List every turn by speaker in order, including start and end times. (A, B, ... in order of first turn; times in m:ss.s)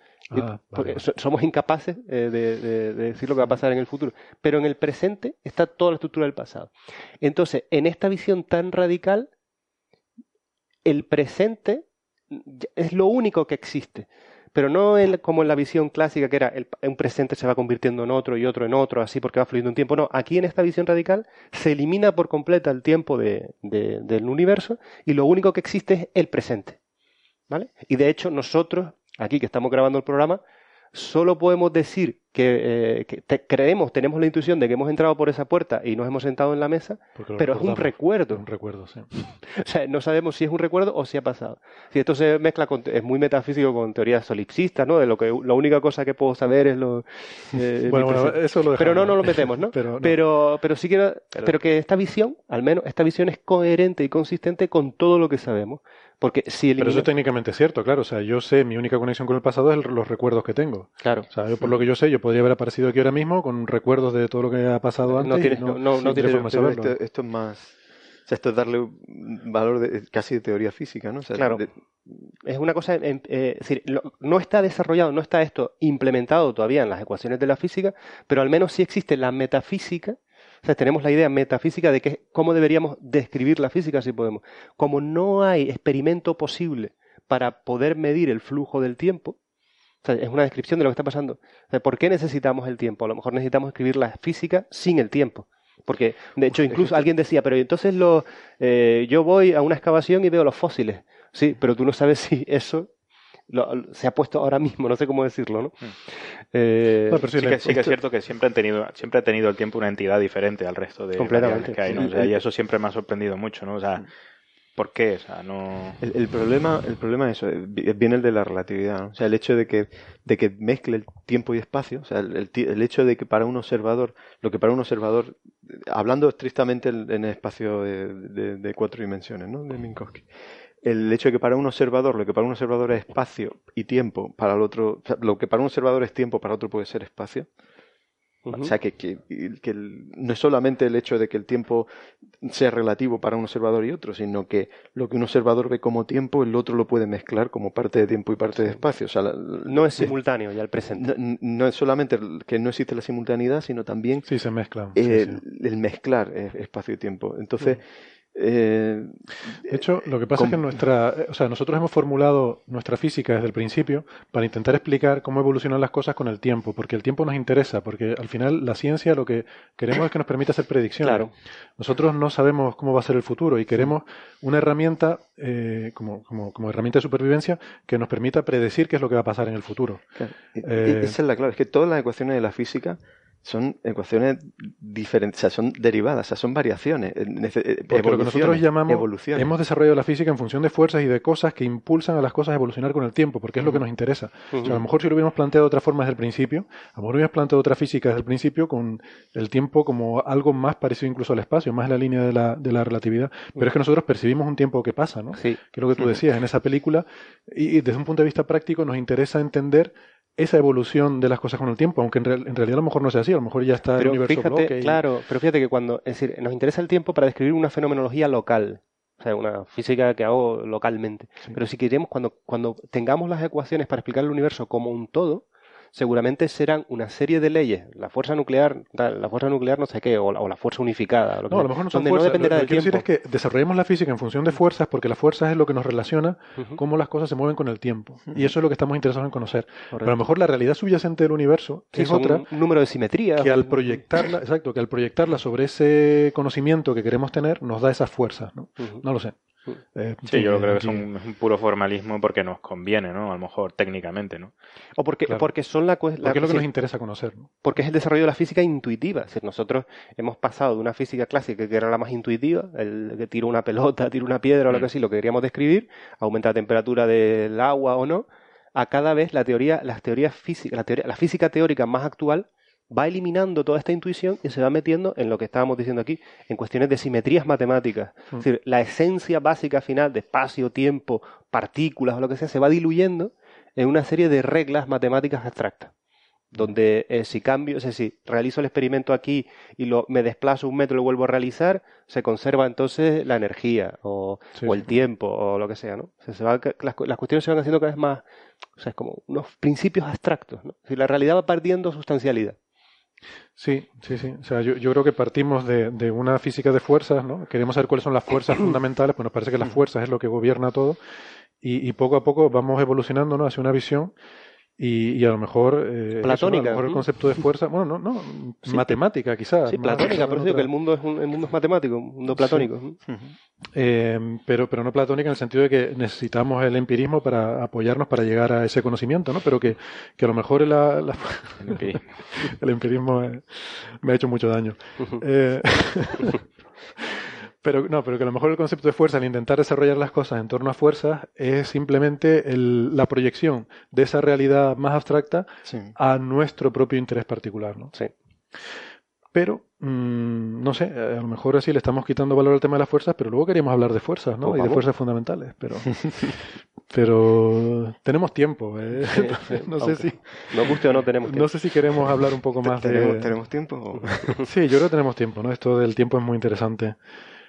0:00.3-0:01.0 A
0:00.3-0:06.7 B
0:07.2-0:09.3 B
0:10.8-0:26.8 B
0:27.5-0:30.4 B
0:30.9-0:38.4 B
0:37.2-0:39.1 A
0:39.5-0:57.1 B
0:47.8-0:50.2 A
0:56.8-1:06.9 A
1:01.0-1:01.2 B
1:05.1-1:06.5 B
1:06.0-1:12.1 C
1:11.4-1:11.6 B
1:12.4-1:29.4 B
1:30.0-1:42.9 B
1:43.5-1:47.2 B
1:47.1-1:47.9 A
1:47.3-1:54.1 D
1:51.2-1:52.1 B
1:51.9-1:52.3 C
1:54.8-1:56.0 D
1:56.0-2:10.2 C
2:10.8-2:17.5 C
2:18.4-2:18.7 B
2:18.5-2:21.9 C
2:22.4-2:30.1 C
2:29.7-2:31.1 B
2:30.9-2:34.3 C
2:34.2-2:35.4 A
2:34.9-2:40.8 C
2:39.7-3:00.0 A
2:51.0-2:51.3 B
3:00.2-3:09.5 C
3:00.6-3:01.2 A
3:07.9-3:35.0 A
3:14.5-3:14.8 B
3:34.0-3:53.0 B
3:51.5-4:02.4 A
3:59.9-4:00.2 B
4:01.9-4:04.0 B
4:03.4-4:09.3 A
4:09.9-4:11.0 A
4:10.3-4:14.5 D
4:15.0-4:16.7 B
4:16.2-4:17.5 A
4:17.6-4:45.9 B
4:46.5-4:58.2 B
4:54.6-4:54.8 A
4:58.8-5:02.6 B
5:03.6-5:11.0 A
5:11.6-5:14.1 A
5:14.8-5:20.7 A
5:16.2-5:17.0 B
5:18.7-5:19.0 B
5:19.7-5:23.0 B
5:22.3-5:22.7 A
5:23.7-5:36.4 A
5:31.6-5:32.1 D
5:36.9-5:47.9 A
5:45.7-5:45.9 C
5:49.3-6:03.3 A
5:54.4-5:54.8 B
5:59.1-6:01.5 B
6:02.6-6:04.4 C
6:04.4-6:07.0 A